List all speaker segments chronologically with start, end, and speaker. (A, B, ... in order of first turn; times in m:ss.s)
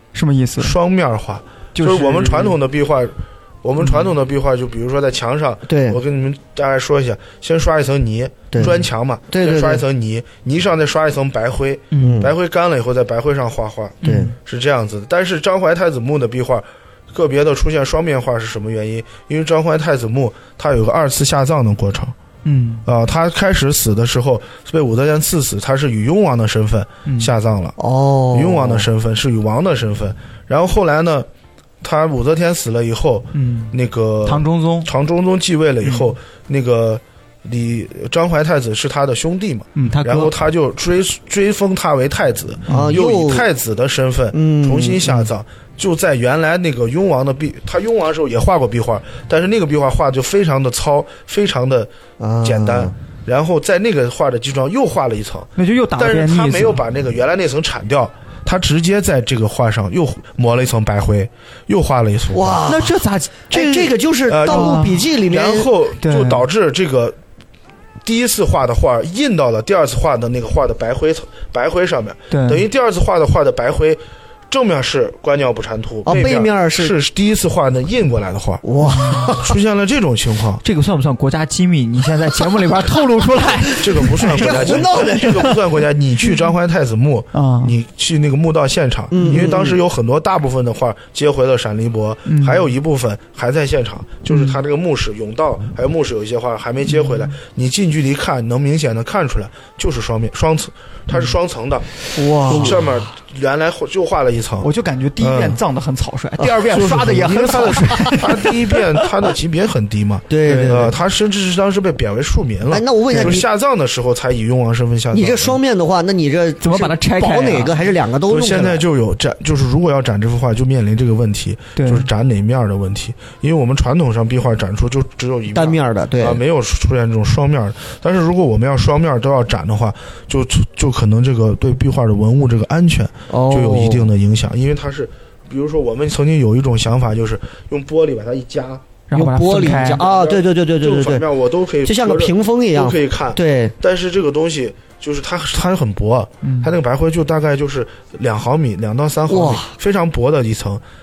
0:00.1-0:00.8 A
0:00.6-0:22.2 B
0:01.8-0:02.6 A
0:05.7-0:06.0 C
0:08.5-0:09.8 C
0:11.9-0:12.2 A
0:12.0-0:12.3 C
0:14.0-0:14.4 A
0:14.0-0:14.3 C
0:22.4-0:22.8 A
0:22.8-0:27.8 B
0:27.1-0:27.3 A
0:27.8-0:28.9 C
0:28.3-0:31.3 B
0:31.8-1:02.7 B
0:33.3-0:33.7 A
0:34.2-0:34.9 A
0:35.8-0:36.1 A
0:39.8-0:40.3 A
0:42.7-0:43.0 A
0:42.7-0:43.5 C
0:44.3-0:45.3 C
0:52.2-0:52.9 C
0:55.6-0:56.8 A
1:02.3-1:03.0 C
1:02.7-1:05.1 A
1:03.5-1:05.7 C
1:04.3-1:07.2 B
1:06.0-1:06.4 A
1:08.0-1:18.6 B
1:12.3-1:12.6 A
1:16.0-1:17.0 C
1:18.6-1:19.6 C
1:18.9-1:19.3 A
1:19.3-1:20.6 B
1:20.6-1:25.1 A
1:23.8-1:41.9 B
1:24.0-1:25.6 C
1:27.3-1:27.8 A
1:29.1-1:29.8 C
1:32.3-1:32.7 A
1:36.9-1:37.3 A
1:42.1-1:42.8 C
1:42.4-1:44.7 B
1:42.5-1:42.8 A
1:44.6-1:49.1 A
1:45.2-1:45.6 B
1:46.6-1:55.6 B
1:50.3-1:51.0 C
1:52.7-1:53.4 C
1:53.1-1:53.4 A
1:55.1-1:58.8 C
1:56.6-1:57.9 A
1:58.3-2:18.9 B
2:01.8-2:02.1 A
2:05.5-2:06.4 C
2:13.3-2:14.1 C
2:19.1-2:20.0 A
2:19.1-2:21.2 C
2:19.9-2:30.8 B
2:21.8-2:23.8 C
2:26.4-2:26.7 A
2:29.3-2:29.8 C